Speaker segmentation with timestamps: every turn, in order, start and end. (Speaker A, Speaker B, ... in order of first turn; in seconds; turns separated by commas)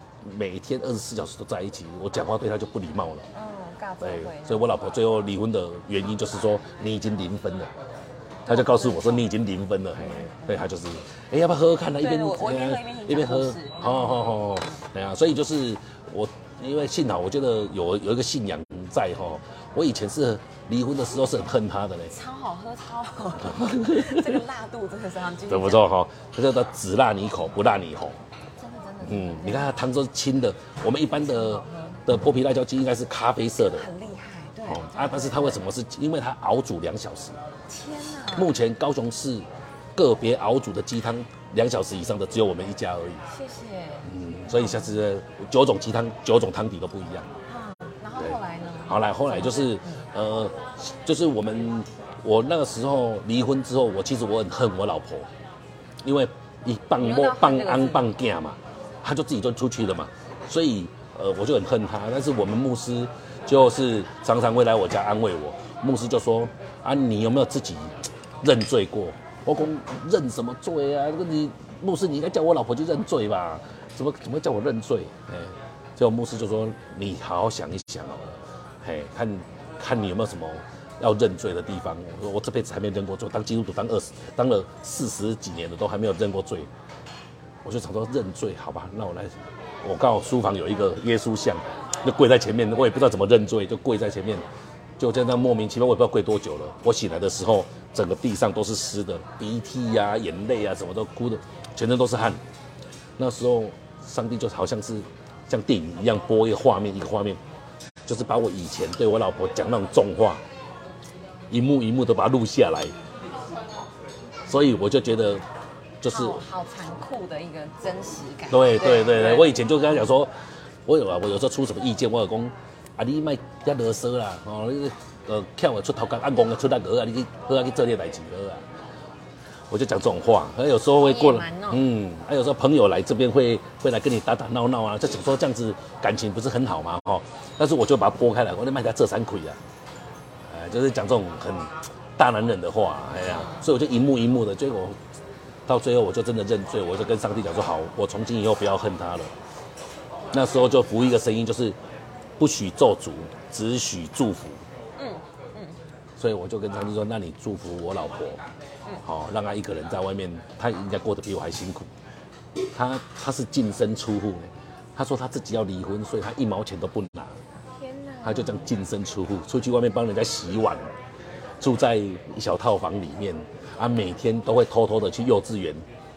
Speaker A: 0.2-3.3, Speaker B: 3.3-4.7, Speaker A: 4.0-7.7, Speaker B: 8.4-9.3, Speaker A: 8.5-22.1, Speaker B: 10.1-10.6, Speaker B: 12.0-14.3, Speaker B: 22.1-25.8, Speaker A: 23.4-24.4, Speaker A: 25.5-28.2, Speaker B: 28.6-29.7, Speaker A: 29.0-33.9, Speaker B: 31.1-32.0, Speaker B: 33.6-35.6, Speaker A: 34.6-37.4, Speaker B: 37.7-38.5, Speaker A: 38.4-43.2, Speaker B: 43.2-45.0, Speaker A: 44.1-47.3, Speaker B: 47.5-50.1, Speaker A: 48.2-55.3, Speaker A: 56.0-86.7, Speaker B: 57.0-58.1, Speaker A: 87.6-94.5, Speaker A: 95.0-102.4, Speaker A: 103.2-107.4, Speaker A: 108.1-110.4, Speaker A: 111.5-113.0, Speaker A: 114.5-115.4, Speaker A: 116.0-116.5, Speaker B: 116.1-119.8, Speaker A: 118.5-120.3, Speaker A: 120.8-128.7, Speaker A: 129.7-139.6, Speaker B: 131.0-131.9, Speaker A: 140.5-145.0, Speaker B: 143.2-143.7, Speaker A: 145.7-149.3, Speaker A: 150.3-151.8, Speaker A: 152.4-154.6, Speaker B: 155.0-155.8, Speaker A: 156.2-158.4, Speaker A: 159.0-161.9, Speaker A: 162.7-167.4, Speaker B: 167.8-168.7, Speaker A: 168.2-171.0, Speaker A: 171.6-175.8